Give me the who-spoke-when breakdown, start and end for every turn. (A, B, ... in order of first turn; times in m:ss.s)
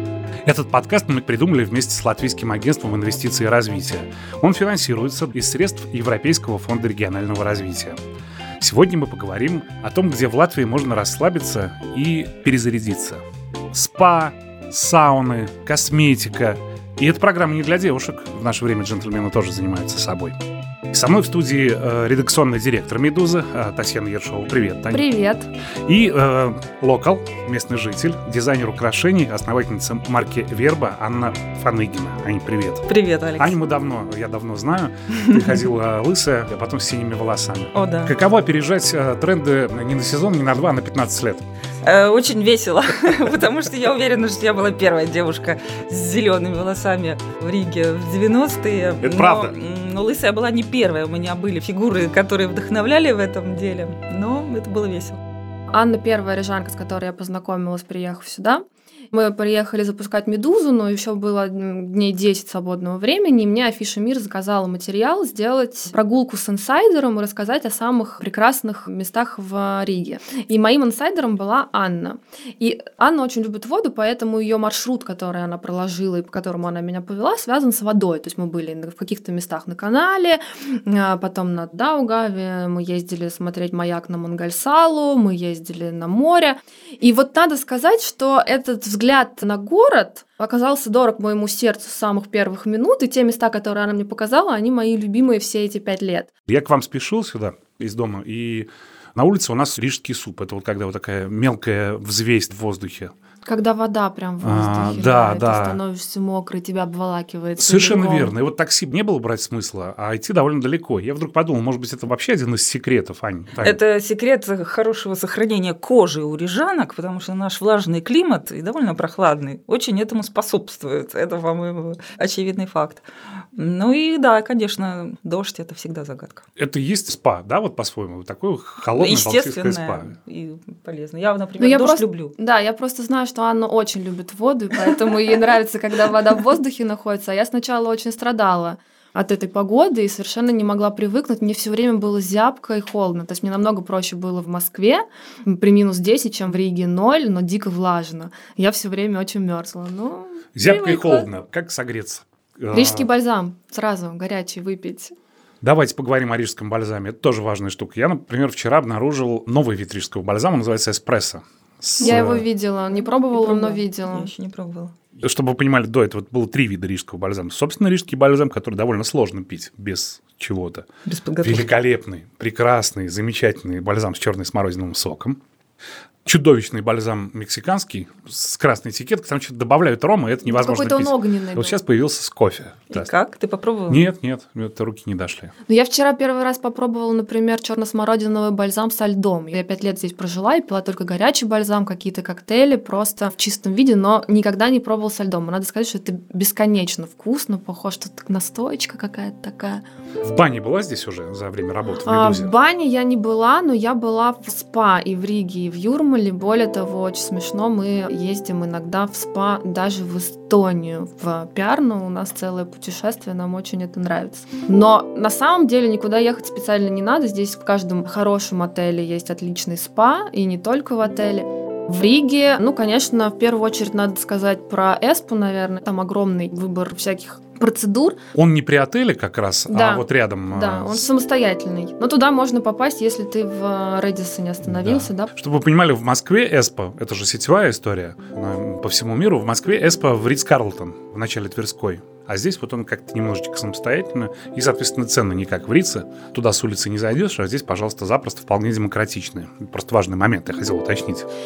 0:00.4-0:08.0 A
0:08.6-0:13.2 A
0:13.7-0:20.4 A
0:20.9-0:25.1 A
0:24.9-0:25.5 B
0:25.9-0:32.9 A
0:32.9-0:33.6 C
0:33.4-0:41.4 A
0:35.1-0:35.5 C
0:37.7-0:38.2 C
0:41.8-0:55.2 C
0:49.0-0:49.5 A
0:55.7-1:36.3 B
1:36.5-1:43.1 A
1:43.4-1:48.4 B
1:44.4-1:45.8 A
1:47.6-1:53.8 A
1:53.6-2:03.0 C
2:03.6-2:06.4 C
2:06.6-2:10.1 A
2:08.9-2:12.3 C
2:11.6-2:31.3 B
2:30.6-2:33.1 A
2:32.7-2:35.2 B
2:35.6-2:42.4 A
2:42.0-2:44.3 B
2:42.0-2:42.4 C
2:42.9-2:44.9 C
2:45.2-2:50.9 A
2:51.1-2:51.7 C
2:51.4-2:55.4 A
2:56.2-3:03.1 A
3:00.5-3:01.8 B
3:02.9-3:04.0 C
3:03.9-3:05.5 A
3:05.7-3:19.8 B
3:20.2-3:22.5 A
3:22.0-3:48.2 B
3:48.3-3:51.0 A
3:49.7-3:55.3 B
3:54.6-4:11.3 A